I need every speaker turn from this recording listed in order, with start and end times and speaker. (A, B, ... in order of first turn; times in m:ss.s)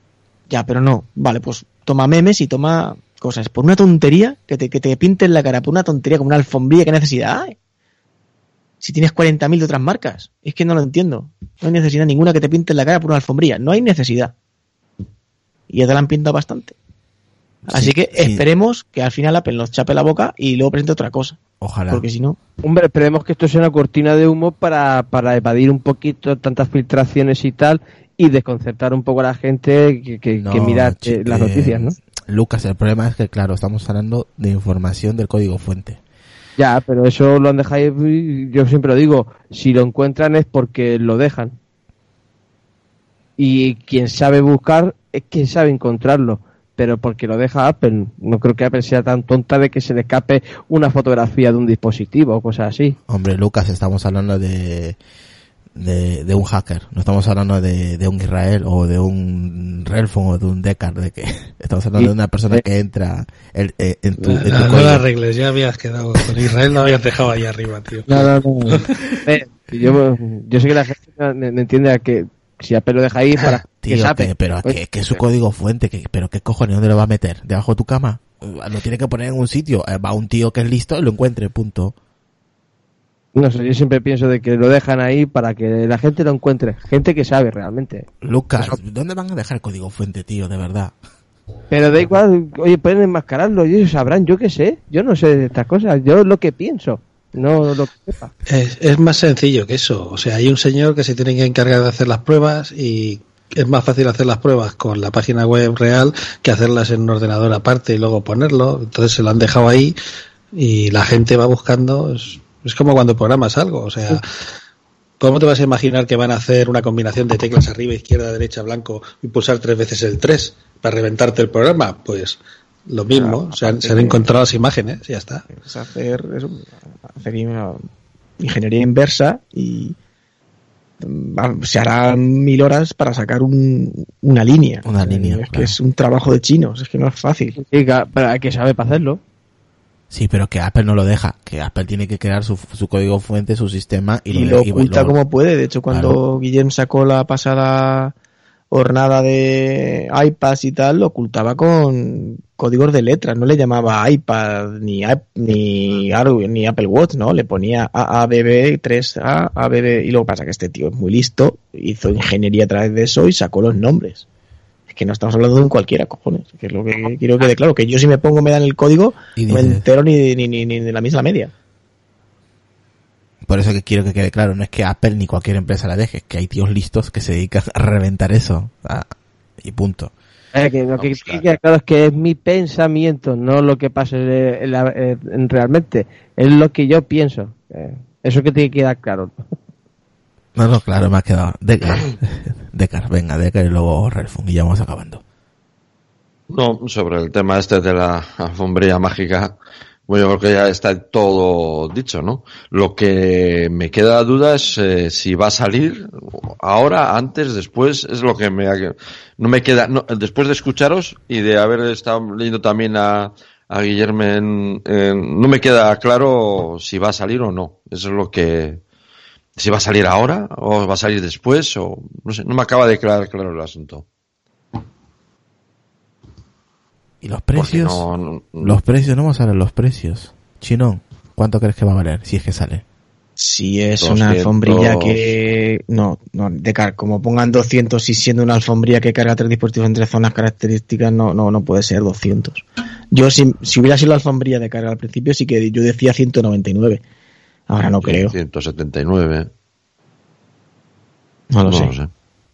0:00.5-0:07.5 A
0:08.8-0:14.3 A
0:15.7-0:16.8 A
0:17.6-0:18.4 B
0:17.7-0:21.4 A
0:21.6-0:22.0 B
0:21.9-0:22.4 A
0:22.6-0:32.0 C
0:30.4-0:36.0 B
0:36.6-0:41.6 C
0:43.4-0:53.0 C
0:53.1-0:55.0 B
0:55.7-1:05.0 B
1:02.0-1:02.6 C
1:04.2-1:09.2 D
1:08.1-1:14.8 C
1:13.5-1:21.9 B
1:23.3-1:28.1 C
1:28.2-1:30.9 B
1:31.7-1:38.3 C
1:38.5-1:49.9 D
1:50.5-1:54.2 D
1:55.2-2:05.5 D
2:03.1-2:04.3 A
2:05.5-2:07.9 A
2:08.4-2:10.0 A
2:11.0-2:17.6 A
2:14.8-2:15.8 B
2:17.5-2:19.2 C
2:20.1-2:25.1 B
2:24.3-2:28.1 A
2:25.9-2:26.2 B
2:28.7-2:44.2 A
2:44.9-2:51.5 A
2:49.4-2:49.8 B
2:53.4-3:00.1 B
3:00.5-3:09.4 C
3:01.0-3:01.4 E
3:10.6-3:15.2 B
3:16.5-3:19.5 E
3:20.1-3:38.8 E
3:39.6-3:44.0 E
3:47.2-3:48.0 B
3:47.5-3:48.8 E
3:48.6-3:52.8 B
3:53.4-4:07.0 A
3:54.0-3:55.3 E
4:07.7-4:08.3 A
4:08.0-4:09.5 E
4:11.5-4:11.9 A
4:11.6-4:12.1 E